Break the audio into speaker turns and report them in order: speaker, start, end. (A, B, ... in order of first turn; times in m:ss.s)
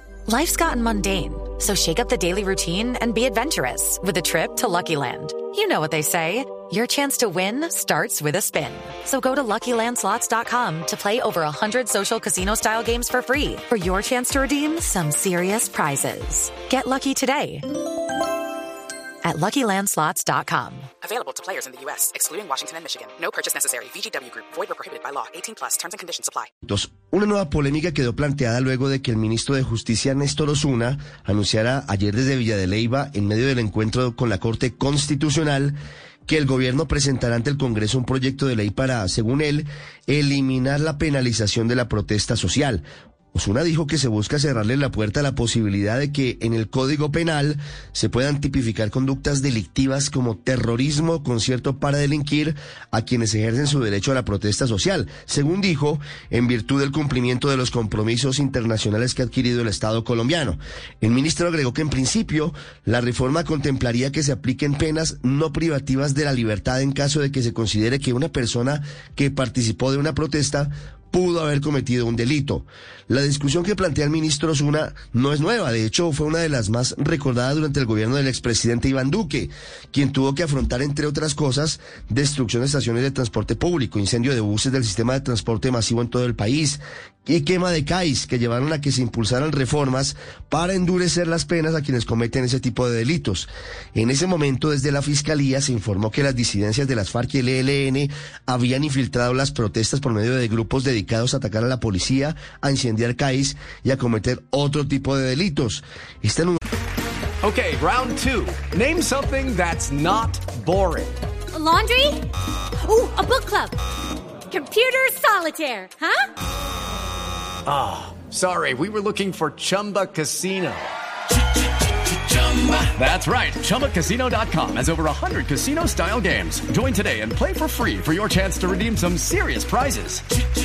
0:00.3-0:17.8 A
0:19.2-0:20.9 A
0:21.0-0:26.5 B
0:26.6-1:46.6 C
1:47.4-1:51.2 D
1:51.5-1:52.2 E
1:52.8-1:53.7 E
1:54.5-1:56.2 E
1:57.7-2:00.9 D
2:02.3-2:10.2 D